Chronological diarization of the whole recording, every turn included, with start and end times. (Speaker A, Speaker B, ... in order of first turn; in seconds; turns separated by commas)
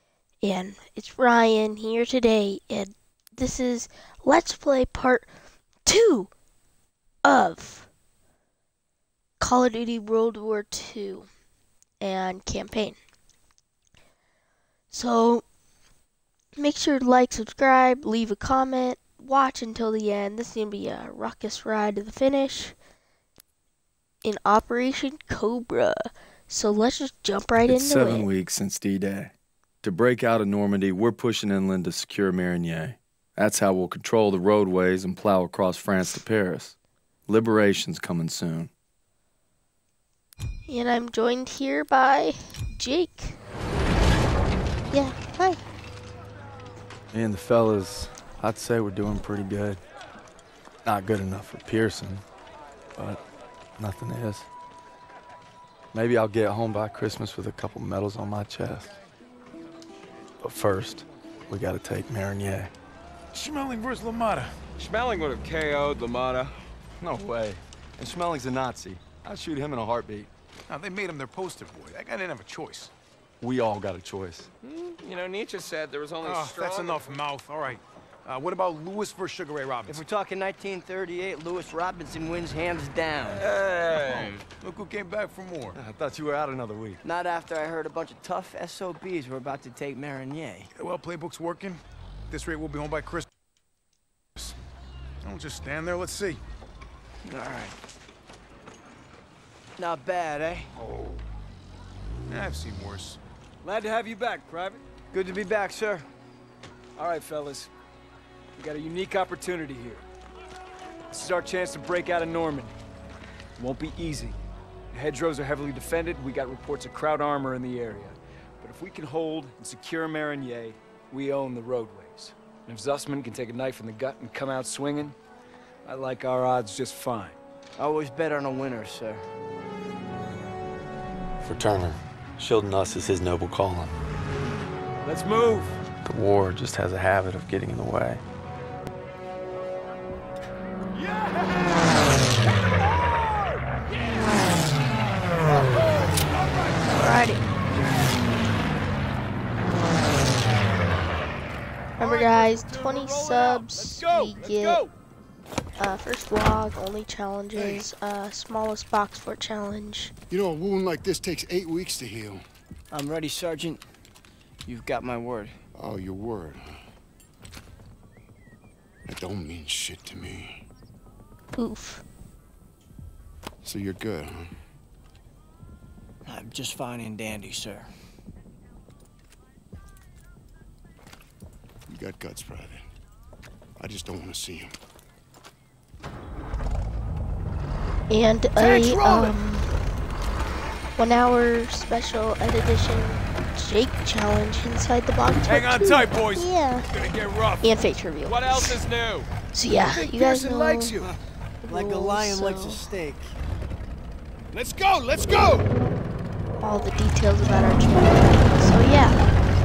Speaker A: 0.4-5.3, Speaker A: 5.8-6.3, Speaker A: 7.2-7.9, Speaker A: 9.4-11.3, Speaker A: 12.0-13.0, Speaker A: 14.9-15.4, Speaker A: 16.6-22.8, Speaker A: 24.2-28.3, Speaker B: 27.6-36.8, Speaker B: 37.3-38.7, Speaker A: 40.7-43.4, Speaker A: 44.9-45.6, Speaker B: 47.1-49.8, Speaker B: 50.9-52.2, Speaker B: 53.8-54.5, Speaker B: 55.9-58.9, Speaker B: 60.4-62.7, Speaker C: 63.3-64.6, Speaker D: 64.8-66.5, Speaker B: 67.0-70.3, Speaker C: 70.7-72.9, Speaker B: 73.4-74.5, Speaker D: 74.6-77.2, Speaker C: 76.2-80.0, Speaker E: 79.9-83.5, Speaker D: 83.3-84.4, Speaker C: 84.6-85.8, Speaker B: 85.8-87.0, Speaker E: 87.0-90.7, Speaker C: 90.7-93.3, Speaker C: 95.2-96.4, Speaker E: 97.2-97.8, Speaker E: 99.8-100.7, Speaker C: 102.3-103.2, Speaker F: 103.6-105.1, Speaker E: 105.1-106.0, Speaker F: 107.0-107.7, Speaker F: 108.6-110.0, Speaker F: 111.1-112.8, Speaker F: 113.6-114.4, Speaker F: 114.9-125.2, Speaker F: 125.9-127.4, Speaker E: 127.8-129.3, Speaker B: 131.4-134.0, Speaker F: 135.0-135.8, Speaker B: 136.1-138.2, Speaker F: 140.9-144.3, Speaker F: 145.5-147.2, Speaker A: 146.9-147.4, Speaker F: 152.0-154.9, Speaker A: 152.0-154.8, Speaker A: 155.8-160.1, Speaker G: 157.6-157.9, Speaker G: 160.3-162.4, Speaker E: 162.9-163.8, Speaker E: 164.7-165.6, Speaker G: 165.8-166.6, Speaker G: 169.1-170.6, Speaker A: 171.6-172.0, Speaker G: 173.6-174.5, Speaker E: 176.3-177.9, Speaker G: 181.9-182.9, Speaker G: 183.8-184.7, Speaker A: 188.1-189.7, Speaker F: 188.6-189.4, Speaker A: 191.0-196.9, Speaker C: 195.5-197.6, Speaker A: 197.6-198.8, Speaker D: 198.2-199.3, Speaker A: 199.5-201.0, Speaker F: 199.7-201.1, Speaker A: 201.6-202.8, Speaker E: 201.7-203.3, Speaker A: 206.6-209.2